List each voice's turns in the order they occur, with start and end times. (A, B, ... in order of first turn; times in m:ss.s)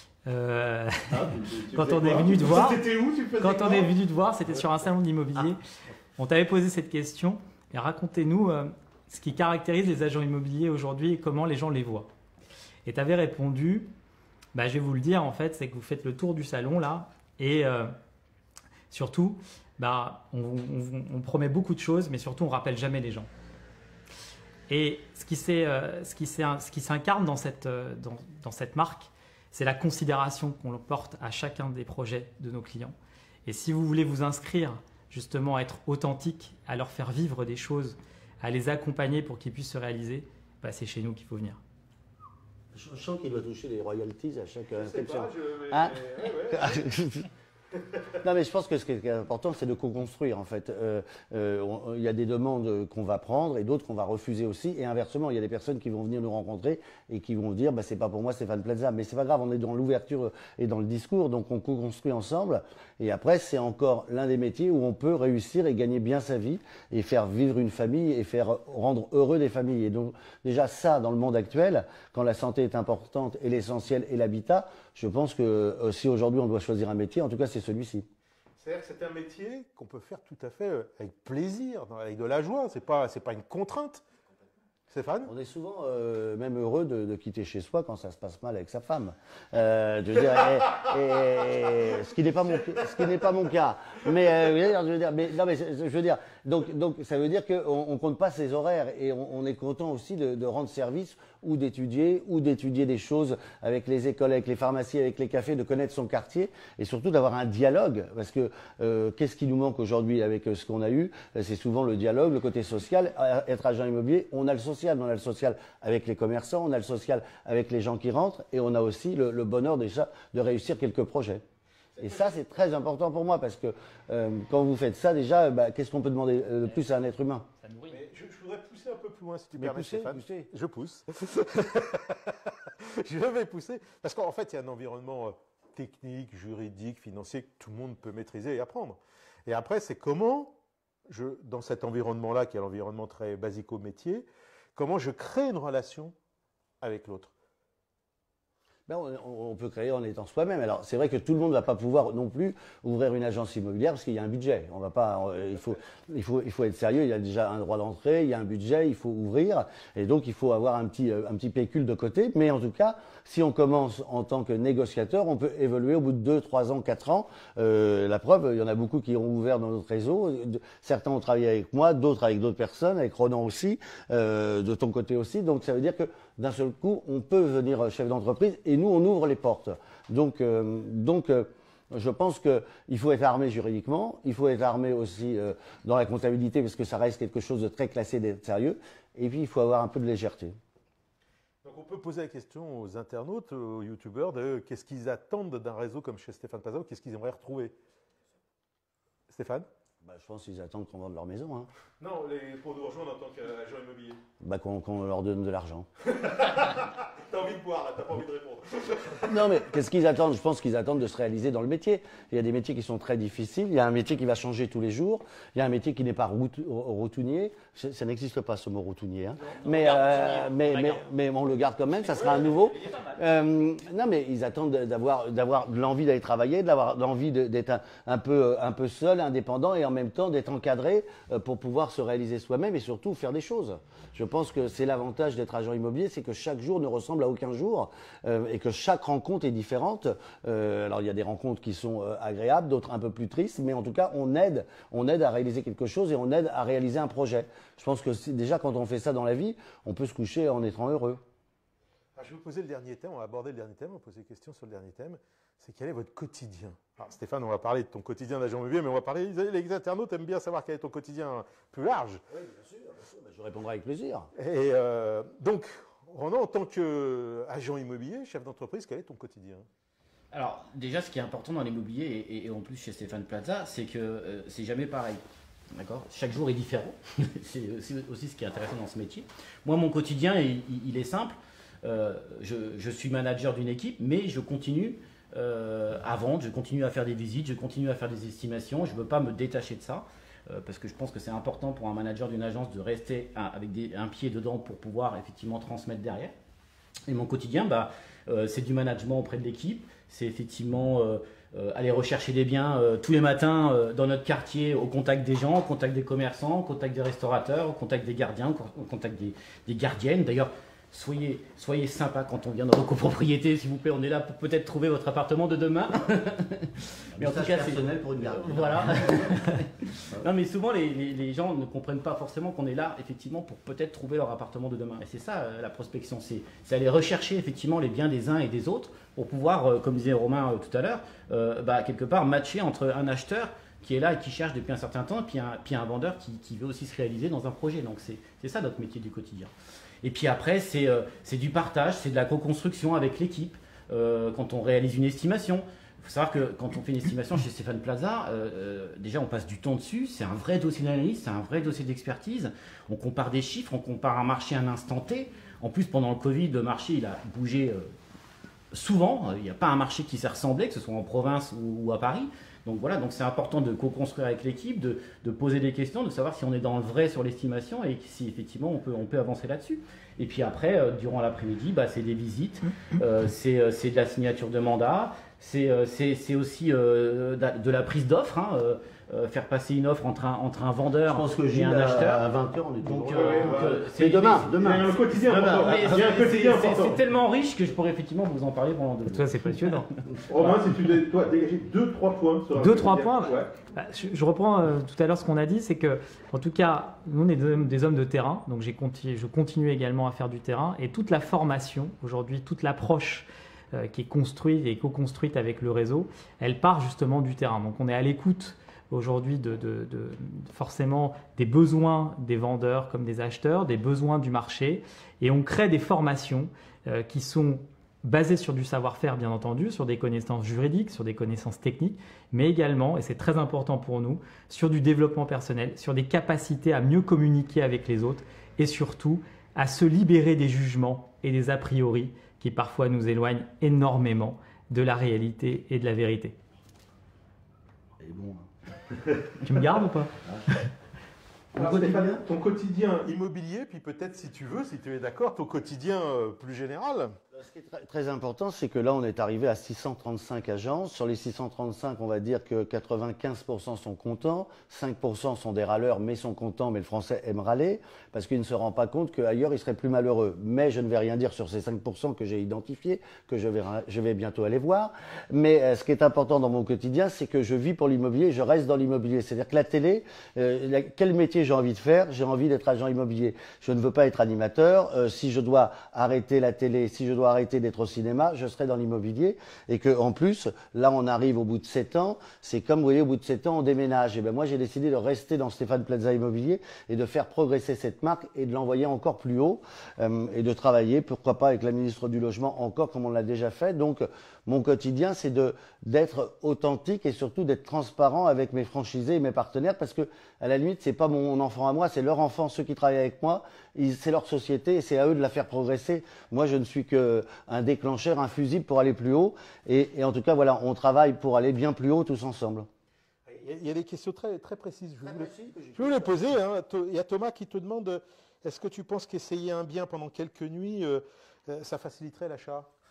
0:00.2-0:02.8 A
0:01.1-0:04.0 B
0:03.4-0:05.6 A
0:06.2-0:12.1 A
0:12.8-0:13.9 A
0:14.5-0:17.9 A
0:18.9-0:23.3 A
0:24.7-0:32.9 A
0:33.4-0:41.6 A
0:42.7-0:47.3 C
0:44.7-0:46.8 B
0:48.1-1:18.1 C
1:18.6-1:24.0 B
1:24.9-1:25.3 B
1:25.2-2:01.4 C
2:02.0-2:07.5 C
2:07.6-2:08.0 A
2:07.9-2:26.1 B
2:09.6-2:10.5 C
2:26.8-2:27.3 B
2:28.9-3:10.6 C
3:11.6-3:17.7 B
3:19.3-3:19.6 B
3:20.0-3:21.7 C
3:22.0-3:24.2 B
3:24.4-3:25.9 C
3:26.0-3:29.4 B
3:29.2-4:11.2 C
3:42.1-3:42.5 B
4:12.2-4:22.2 B
4:22.3-4:24.3 C
4:24.3-4:29.7 B
4:30.3-4:35.2 D
4:35.7-4:56.3 D
4:57.1-5:39.5 D
5:17.2-5:19.6 C
5:40.0-5:57.9 D
5:58.7-6:22.3 D
6:21.1-6:26.2 C
6:22.8-6:30.5 D
6:23.1-6:23.9 B
6:24.5-6:27.0 B
6:29.1-6:29.9 A
6:30.3-6:33.5 B
6:32.6-7:16.4 A
7:18.0-7:18.5 C
7:19.4-7:20.1 A
7:20.2-7:20.5 C
7:21.5-7:22.2 C
7:21.5-7:27.2 B
7:27.3-8:32.7 C
8:33.3-8:42.7 B
8:35.0-8:36.2 C